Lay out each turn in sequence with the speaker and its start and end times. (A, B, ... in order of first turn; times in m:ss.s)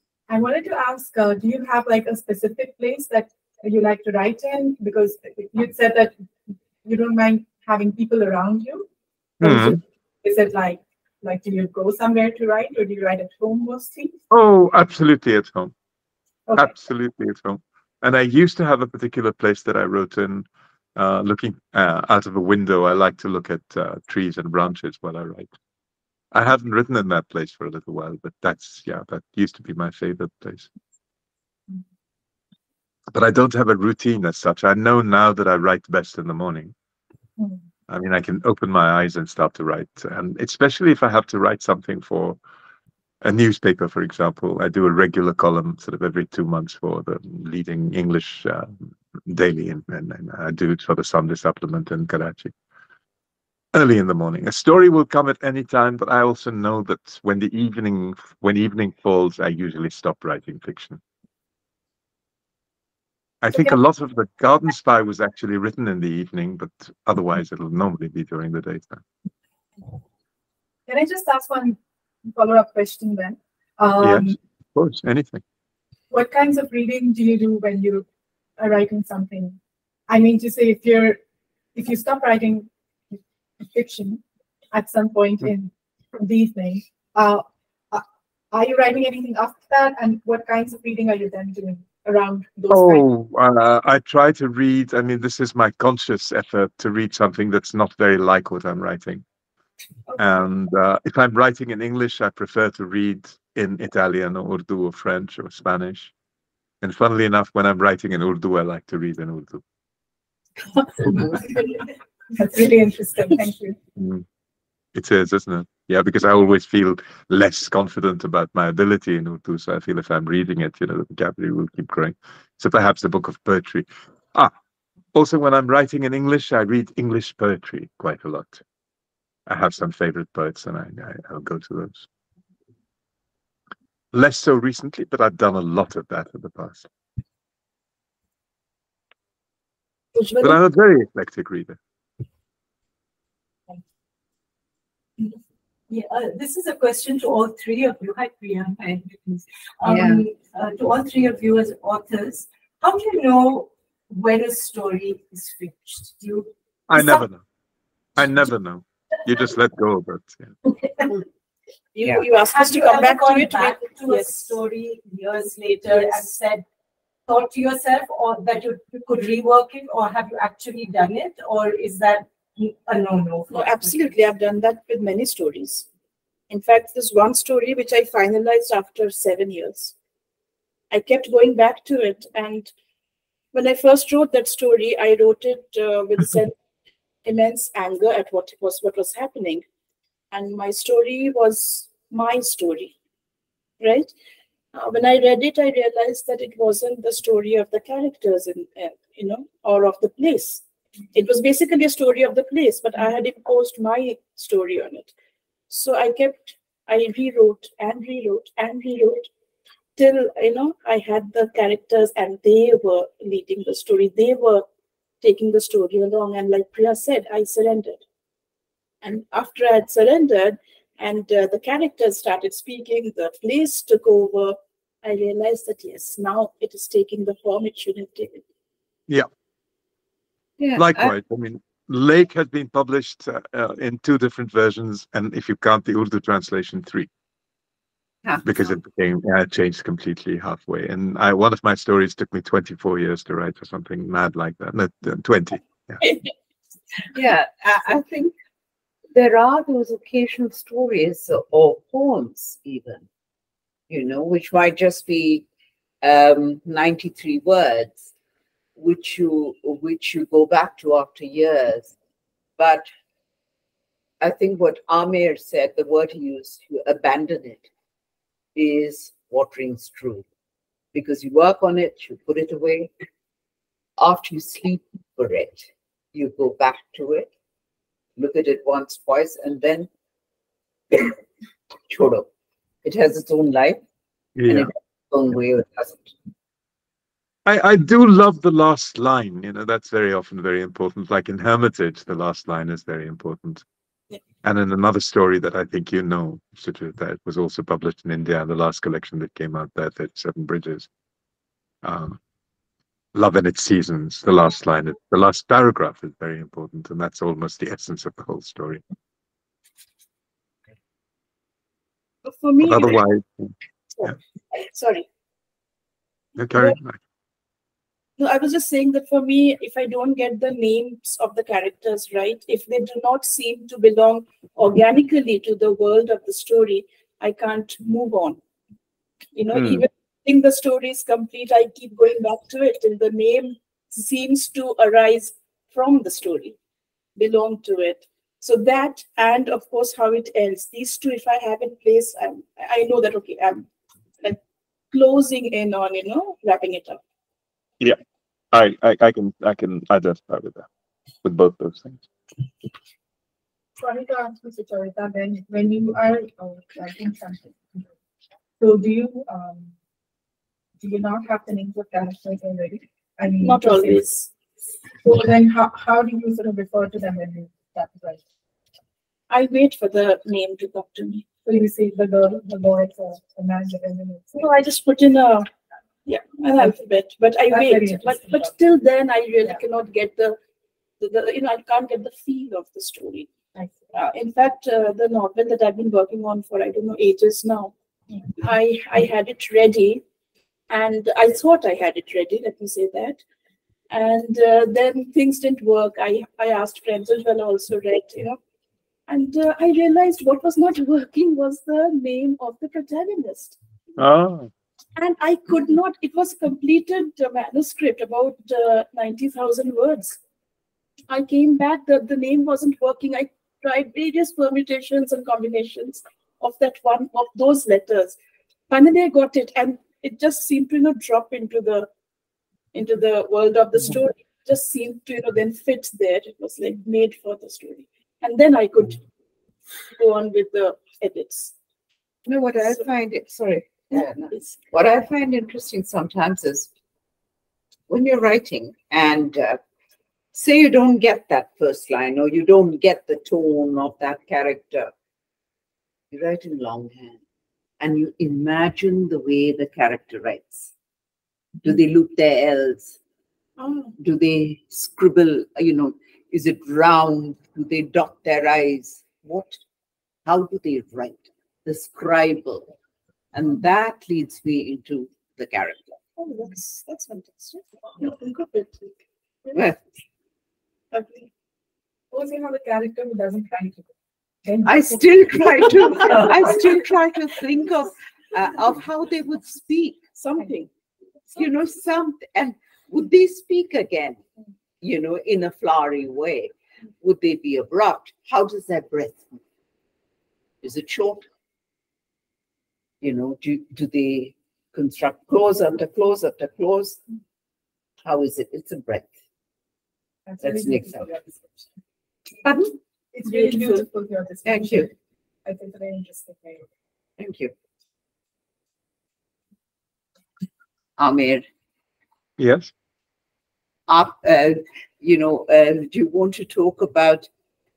0:00.3-0:06.2 A
0:06.8-0:08.9 A
0:09.4-0:14.2 A
0:09.4-0:09.8 B
0:14.3-0:15.7 B
0:16.6-0:25.5 B
0:26.3-0:30.7 B
0:33.1-0:36.7 B
0:37.9-0:42.4 B
0:43.2-0:52.5 B
0:53.7-1:01.0 B
1:03.4-1:09.0 B
1:10.9-1:14.4 A
1:14.0-1:15.4 B
1:16.1-1:18.1 A
1:18.6-1:21.2 A
1:21.8-1:22.7 A
1:23.6-1:24.2 A
1:24.7-1:33.0 A
1:32.7-1:39.2 B
1:40.2-1:46.1 B
1:46.8-1:49.6 B
1:51.0-1:51.5 A
1:52.3-1:53.8 A
1:54.0-1:54.2 B
1:55.0-2:04.5 B
2:05.1-2:08.6 B
2:09.5-2:12.1 B
2:14.1-2:16.9 B
2:20.2-2:20.6 C
2:20.4-2:21.8 B
2:25.9-2:37.3 D
2:29.8-2:30.2 E
2:36.9-2:37.4 B
2:38.2-2:40.5 B
2:42.0-2:44.6 C
2:42.4-2:46.6 D
2:45.7-2:46.4 C
2:47.3-2:54.1 D
2:53.5-2:55.9 C
2:56.5-2:59.9 C
3:00.9-3:02.7 C
3:03.5-3:06.5 C
3:07.2-3:09.6 C
3:10.3-3:13.0 C
3:13.8-3:14.1 C
3:14.7-3:25.1 C
3:25.7-3:29.3 C
3:30.0-3:34.6 C
3:35.2-3:38.0 C
3:39.0-3:48.4 C
3:50.6-3:51.2 E
3:50.8-3:57.1 B
3:58.4-4:06.1 B
4:07.1-4:08.3 E
4:09.1-4:13.1 E
4:13.9-4:15.4 E
4:16.0-4:18.1 E
4:18.8-4:21.9 E
4:22.6-4:22.9 E
4:24.2-4:27.7 E
4:28.6-4:30.2 E
4:30.9-4:32.9 E
4:34.0-4:37.3 E
4:38.2-4:39.9 E
4:41.9-4:42.3 E
4:42.8-4:43.8 E
4:44.4-4:44.7 B
4:44.5-4:46.2 E
4:47.5-4:53.6 B
4:54.4-5:00.9 B
5:01.8-5:02.2 B
5:03.2-5:08.8 B
5:12.2-5:13.0 C
5:12.6-5:13.5 B
5:14.0-5:15.1 C
5:16.4-5:17.0 B
5:18.2-5:28.4 C
5:29.4-5:36.6 C
5:29.5-5:29.9 B
5:37.2-5:43.7 C
5:44.9-5:47.0 C
5:48.5-5:50.7 B
5:51.2-5:52.1 B
5:53.8-5:57.9 A
5:58.6-5:59.7 A
6:00.8-6:04.0 A
6:03.4-6:04.3 C
6:05.0-6:08.2 A
6:09.3-6:11.3 C
6:11.4-6:14.5 A
6:14.4-6:15.5 C
6:16.1-6:20.4 C
6:17.5-6:18.6 A
6:21.0-6:23.3 C
6:23.9-6:27.7 C
6:28.4-6:30.0 C
6:30.7-6:33.2 C
6:33.9-6:38.4 C
6:39.1-6:43.6 C
6:44.0-6:44.5 B
6:45.0-6:50.2 C
6:51.1-6:58.2 C
6:58.7-7:01.9 C
7:02.7-7:09.0 C
7:09.9-7:11.5 C
7:12.3-7:16.7 E
7:14.0-7:14.5 C
7:17.9-7:19.6 E
7:20.3-7:24.9 E
7:26.1-7:27.2 E
7:27.8-7:30.7 E
7:31.6-7:33.0 E
7:33.6-7:33.9 C
7:34.0-7:39.6 E
7:40.3-7:42.7 E
7:43.3-7:46.0 E
7:46.2-7:48.9 C
7:49.5-7:49.8 E
7:50.9-7:51.3 C
7:52.1-7:53.9 A
7:54.4-7:56.5 A
7:54.6-8:00.0 E
8:00.2-8:00.7 C
8:01.3-8:04.2 E
8:04.8-8:09.4 E
8:10.6-8:11.3 E
8:13.0-8:17.0 E
8:18.0-8:19.1 E
8:20.3-8:21.6 A
8:20.4-8:21.1 E
8:23.1-8:24.9 A
8:23.3-8:23.9 C
8:24.4-8:24.9 E
8:25.4-8:26.6 A
8:27.2-8:27.5 E
8:31.0-8:31.4 E
8:32.4-8:32.7 B
8:33.9-8:37.3 E